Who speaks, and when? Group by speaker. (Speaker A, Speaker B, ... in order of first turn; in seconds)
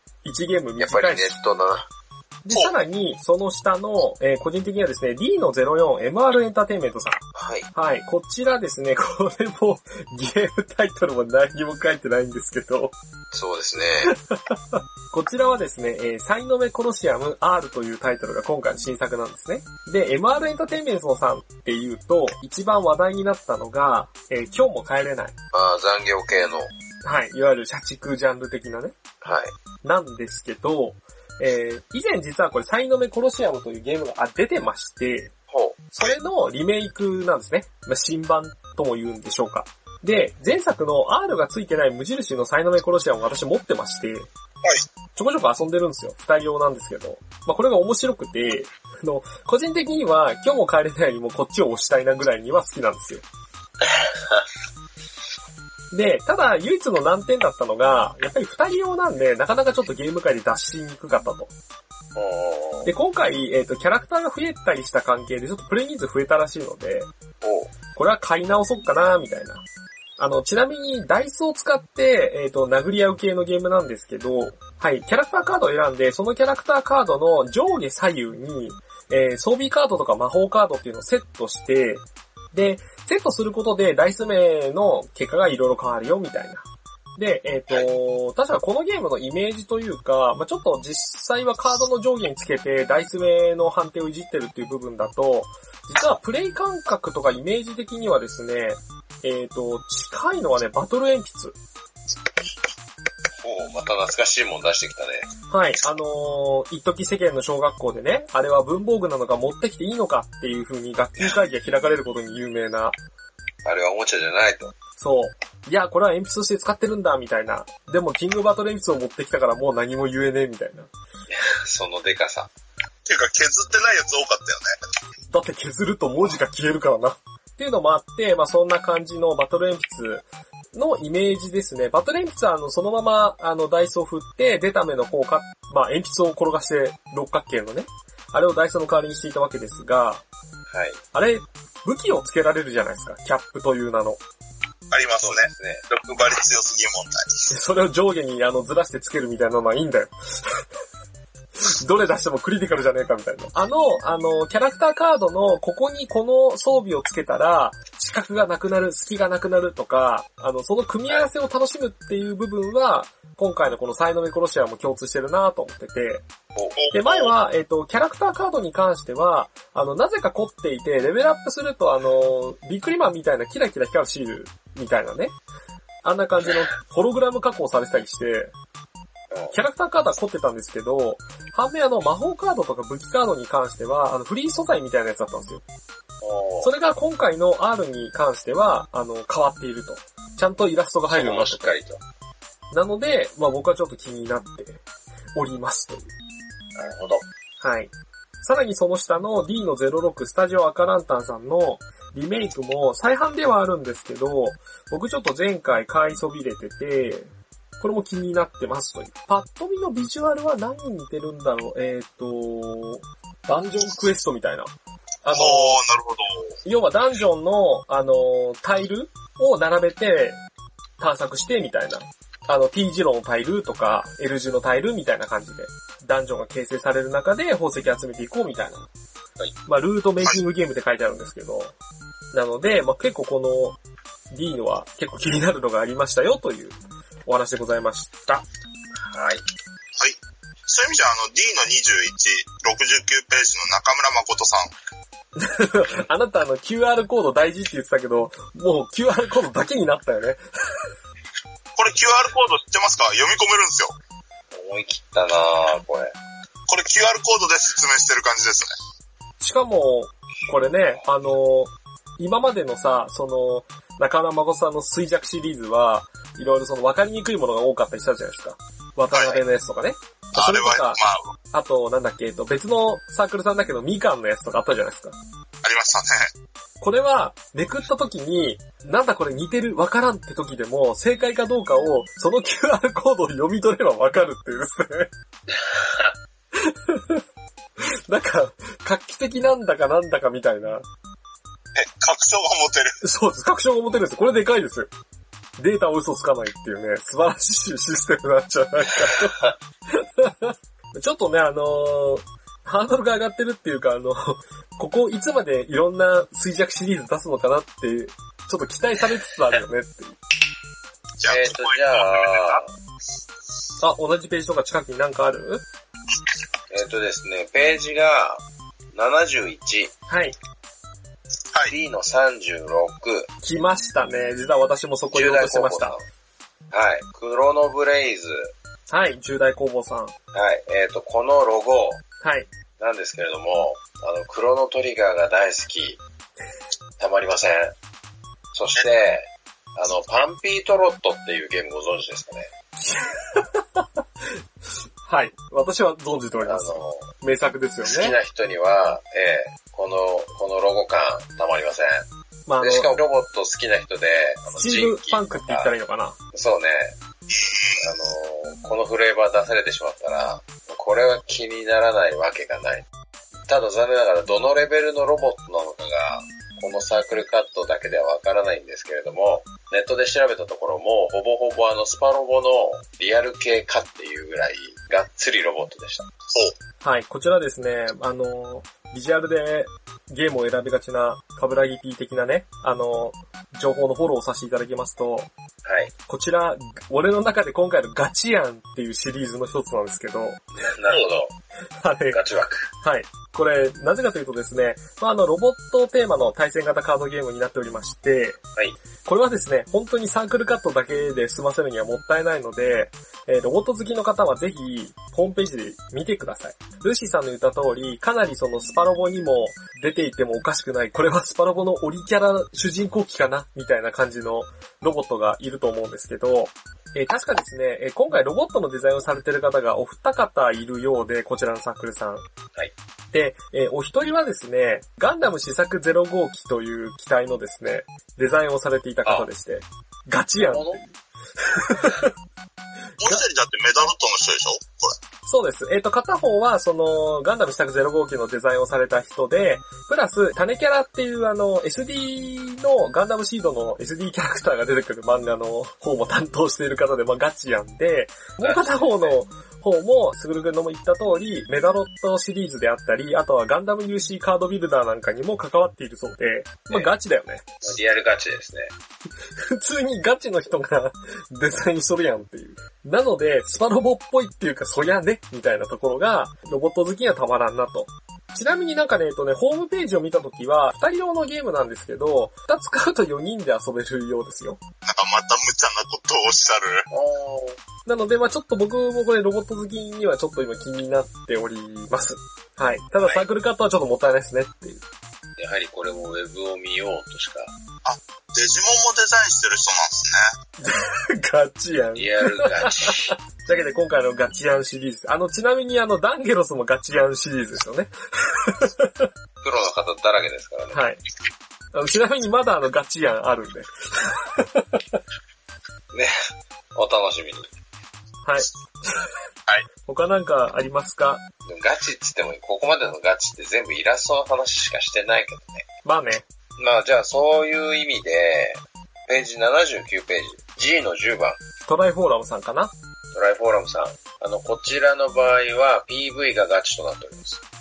Speaker A: 0.2-1.4, 2.4-7.2, 7.7-12.9, 14.1-25.3, 27.0-28.9, 29.8-35.3, 35.9-44.3, 45.1-53.2, 55.9-61.5, 62.8-67.1, 68.0-69.6, 70.2-86.6, 87.2-101.5, 105.5-112.9, 115.0-120.9, 125.3-140.2, 141.1-144.2, 147.5-150.6, 151.6-166.2, 166.9-175.3, 176.0-178.5, 179.5-185.6, 186.6-191.8, 192.7-194.8, 195.3-196.1, 197.6-214.7, 215.2-215.8, 216.6-220.4, 221.0-228.9, 229.7-231.7, 232.3-233.8, 234.3-238.4, 245.3-250.8, 259.4-271.0, 271.5-275.2, 276.8-285.1, 286.5-287.2, 288.1-290.8, 293.0-294.9, 295.6-310.2, 313.8-315.6, 320.1-320.4, 323.4-325.9, 328.9-330.1, 332.2-332.5, 342.8-343.9, 345.0-348.2, 352.4-353.0, 354.5-356.2, 376.8-385.3, 386.1-390.4, 391.8-392.2, 392.8-398.4, 399.0-422.2, 423.1-432.1, 435.2-457.4, 459.4-474.6, 477.9-484.8, 490.6-499.1, 500.7-501.0, 501.7-505.0, 508.2-509.1, 509.9-511.2, 515.8-516.2, 521.7-522.7
Speaker B: 0.8-1.9, 7.3-7.7, 13.3-14.1, 25.5-26.7, 29.2-29.5, 35.5-35.9, 53.8-54.4, 62.1-62.9, 67.4-67.7, 103.4-105.3, 113.6-114.7, 121.3-122.5, 140.7-141.0, 145.2-145.8, 166.5-166.8, 186.2-186.7, 191.1-192.0, 196.7-197.2, 239.0-239.4, 254.5-256.1, 285.5-286.1, 311.3-312.7, 316.7-319.9, 321.6-323.3, 325.1-326.0, 326.7-328.5, 330.3-332.0, 332.8-336.0, 337.0-337.7, 338.5-342.5, 346.4-347.1, 347.8-352.1, 352.6-355.7, 356.3-357.0, 357.8-362.9, 363.5-376.1, 385.6-385.9, 390.5-391.3, 392.1-392.7, 430.4-430.8, 448.4-449.1, 457.6-458.7, 476.9-477.6, 483.0-483.3, 485.4-487.5, 491.9-493.1, 499.4-500.8, 506.7-507.5, 511.4-515.6, 516.6-521.4, 523.1-527.4
Speaker C: 123.0-124.7, 144.9-147.3, 166.8-167.3, 215.3-216.5, 240.0-244.7, 251.8-253.9, 256.7-258.7, 269.1-269.4, 270.4-271.3, 275.6-276.3, 291.8-292.9, 311.2-312.6, 376.3-376.5, 433.0-434.9, 474.8-476.8, 487.8-490.3